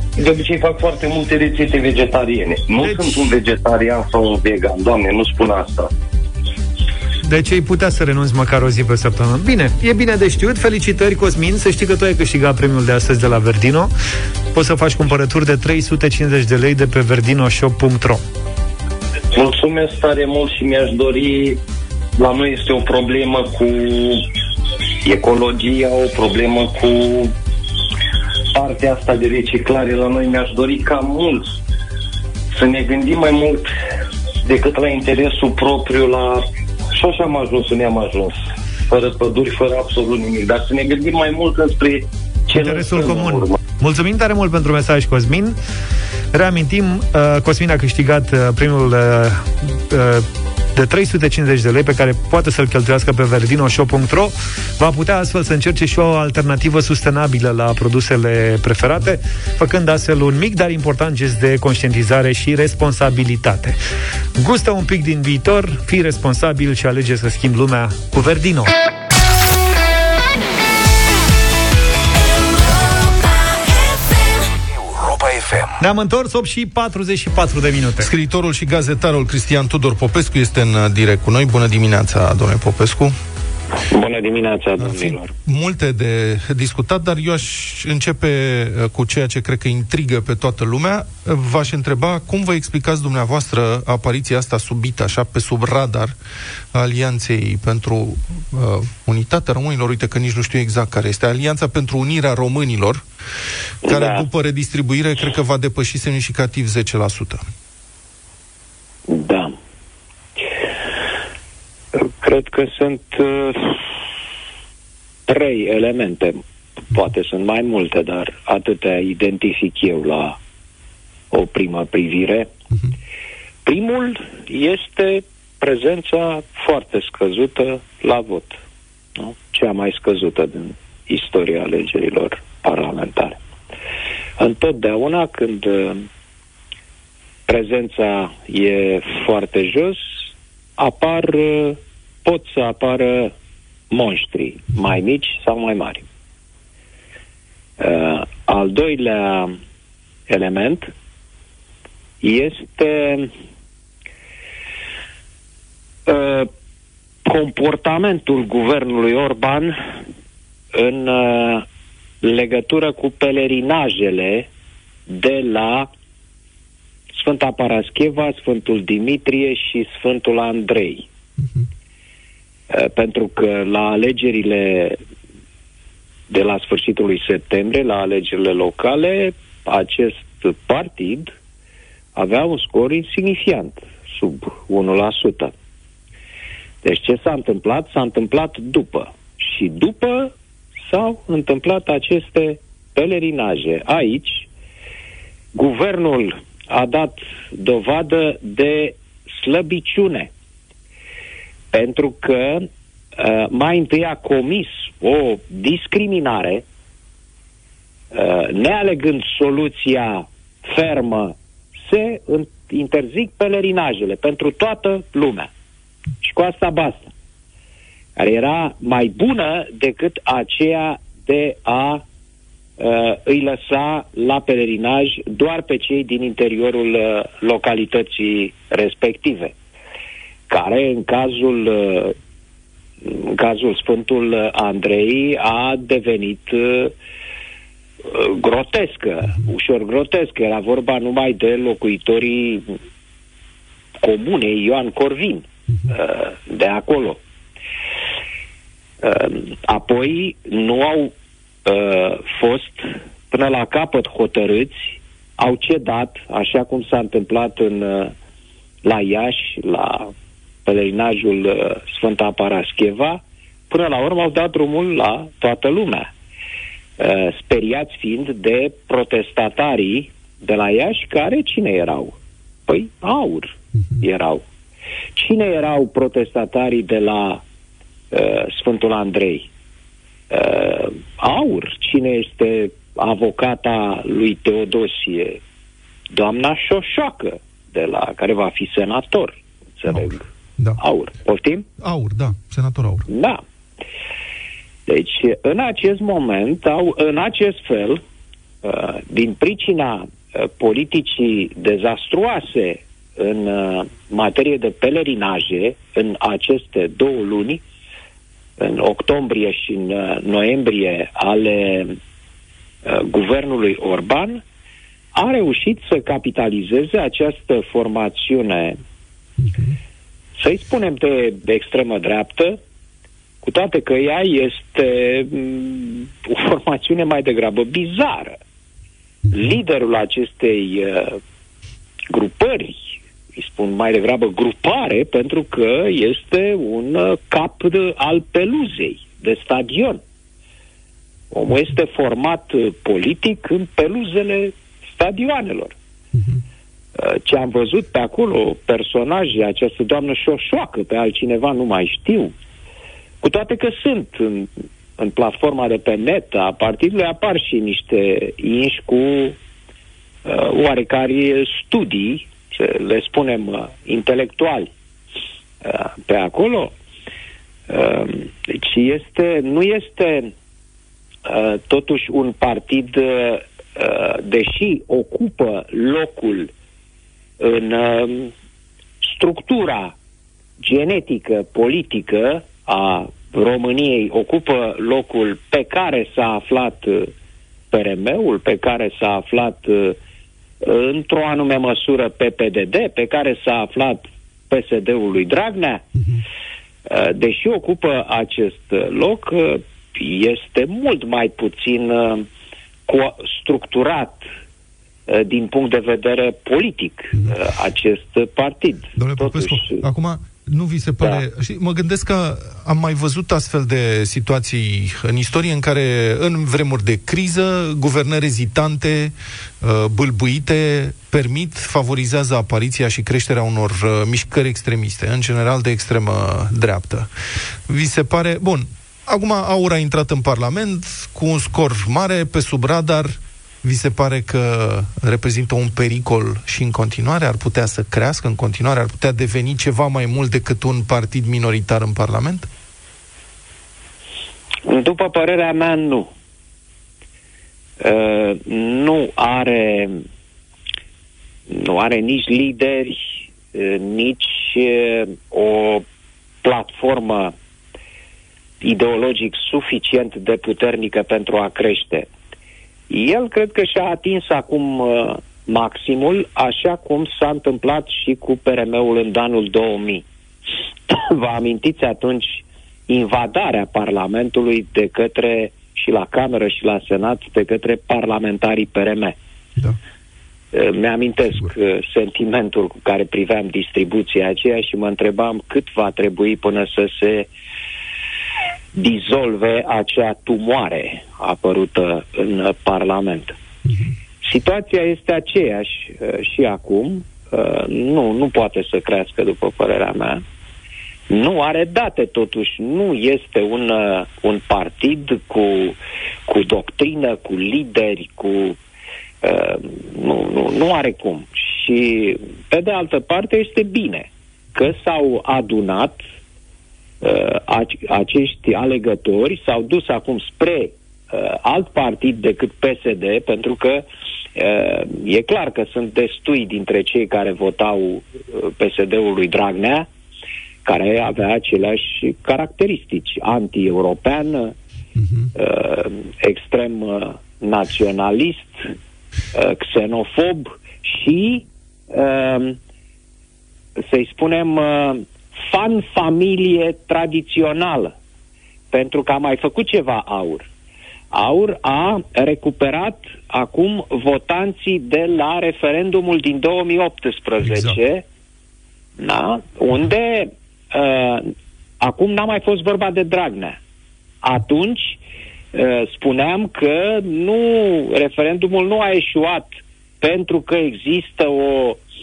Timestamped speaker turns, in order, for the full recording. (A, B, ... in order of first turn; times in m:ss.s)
0:00.2-0:05.9 A
0:02.8-0:03.3 B
0:07.2-0:13.9 B
0:14.5-0:18.2 B
0:19.3-0:21.6 A
0:22.2-0:24.3 A
0:25.0-0:27.3 A
0:28.5-0:31.6 A
0:32.5-0:33.7 A
0:34.4-0:38.3 A
0:38.9-0:43.6 A
0:42.5-0:45.6 B
0:46.3-1:03.8 B
1:04.4-1:08.7 B
1:15.8-1:18.1 B
1:18.0-1:23.1 C
1:23.9-1:25.2 D
1:24.8-1:36.1 C
1:36.7-1:43.0 C
1:43.8-1:44.3 D
1:43.8-1:47.4 C
1:49.1-1:49.5 D
1:51.9-1:53.8 D
1:55.3-2:00.4 D
2:01.3-2:02.5 D
2:03.6-2:08.6 D
2:09.2-2:13.4 D
2:14.4-2:16.0 D
2:17.5-2:23.3 D
2:23.9-2:26.0 D
2:27.8-2:29.6 D
2:30.3-2:30.9 D
2:32.2-2:33.3 D
2:36.1-2:36.5 D
2:37.2-2:39.8 D
2:40.7-2:41.6 D
2:42.2-2:44.5 D
2:45.1-2:45.9 D
2:47.2-2:51.0 D
2:52.7-2:55.0 D
2:56.3-3:01.3 D
3:02.1-3:05.5 D
3:06.8-3:14.5 D
3:15.5-3:20.3 D
3:21.7-3:26.6 D
3:28.1-3:35.5 D
3:36.2-3:37.1 D
3:38.2-3:42.0 D
3:42.8-3:49.5 D
3:50.5-3:52.2 D
3:53.0-3:57.0 D
3:58.0-4:02.7 D
4:04.0-4:07.2 D
4:09.0-4:11.1 D
4:11.6-4:18.1 D
4:18.8-4:20.1 D
4:20.6-4:26.1 D
4:27.0-4:34.4 D
4:35.1-4:37.4 D
4:38.1-4:39.5 D
4:40.3-4:45.4 D
4:46.1-4:50.3 D
4:49.9-4:50.8 C
4:50.8-4:51.7 D
4:51.8-4:53.0 C
4:53.1-4:53.4 D
4:54.9-4:58.0 D
4:58.6-5:07.6 D
5:08.6-5:12.0 D
5:12.8-5:14.4 D
5:15.1-5:18.8 D
5:19.4-5:19.7 C
5:20.4-5:22.6 D
5:23.4-5:28.4 D
5:29.3-5:31.2 D
5:32.1-5:40.0 D
5:41.3-5:45.8 D
5:47.0-5:52.3 D
5:53.2-5:59.4 D
6:00.2-6:04.7 D
6:05.6-6:06.7 D
6:07.7-6:10.3 D
6:11.2-6:16.5 D
6:17.4-6:18.3 D
6:19.0-6:19.9 D
6:20.6-6:27.1 D
6:27.7-6:30.0 D
6:30.6-6:35.8 D
6:36.9-6:42.3 D
6:42.9-6:44.2 D
6:45.1-6:49.8 D
6:49.0-7:07.1 C
7:07.7-7:22.5 C
7:24.6-7:26.1 D
7:27.8-7:30.0 D
7:31.5-7:33.0 D
7:33.5-7:35.8 D
7:36.4-7:37.3 D
7:38.6-7:42.1 D
7:42.9-7:50.0 D
7:50.9-7:59.2 D
8:00.5-8:07.3 D
8:08.7-8:13.4 D
8:14.2-8:20.2 D
8:21.1-8:28.6 D
8:29.2-8:36.0 D
8:37.0-8:49.9 D
8:50.6-8:54.5 D
8:55.0-8:55.3 C
8:55.3-8:58.7 D
8:59.3-9:02.6 D
9:03.8-9:07.9 D
9:08.7-9:10.5 D
9:11.1-9:18.0 D
9:17.4-9:17.8 C
9:19.0-9:21.3 D
9:21.8-9:23.6 D
9:24.2-9:25.0 D
9:25.5-9:31.8 D